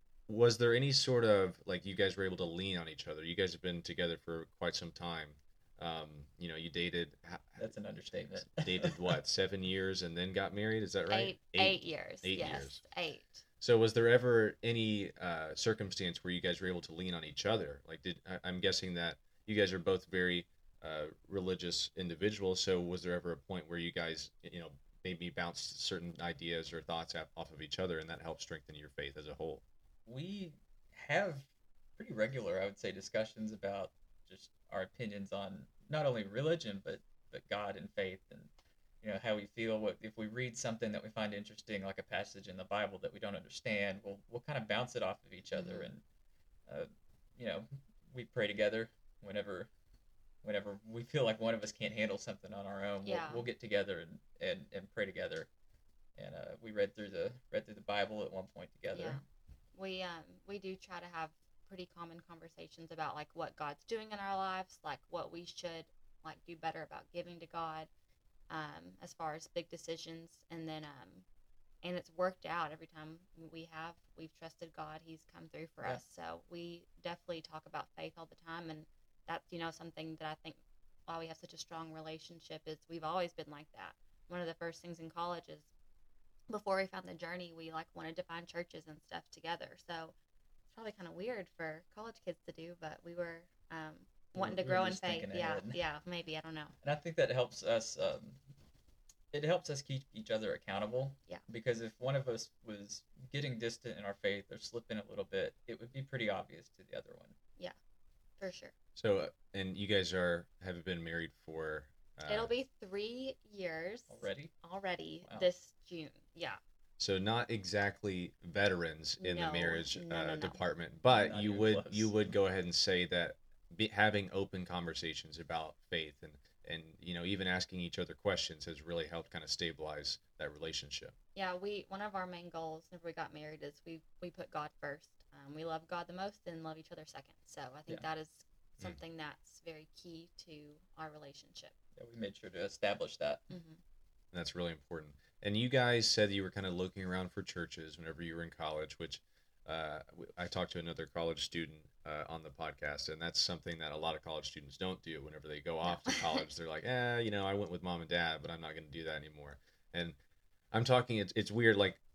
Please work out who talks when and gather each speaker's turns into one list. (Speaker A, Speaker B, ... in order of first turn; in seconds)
Speaker A: 0.3-7.6, 8.5-12.8, 13.6-29.6, 109.0-112.5, 117.0-131.2, 144.3-160.2, 160.7-162.0
Speaker B: 7.6-9.2, 30.1-38.5, 39.0-46.0, 46.7-49.7, 50.4-55.5, 56.2-59.2, 94.3-95.8, 96.8-98.4, 99.3-107.4, 114.1-114.5, 121.1-122.1, 142.0-143.4
Speaker C: 11.1-13.4, 45.5-45.9, 53.0-53.5, 58.9-59.2, 59.8-67.9, 68.5-71.3, 71.8-85.7, 86.5-90.2, 90.7-96.8, 108.4-108.7, 112.3-116.6, 119.2-120.6, 131.3-141.8, 143.5-143.8, 155.8-156.4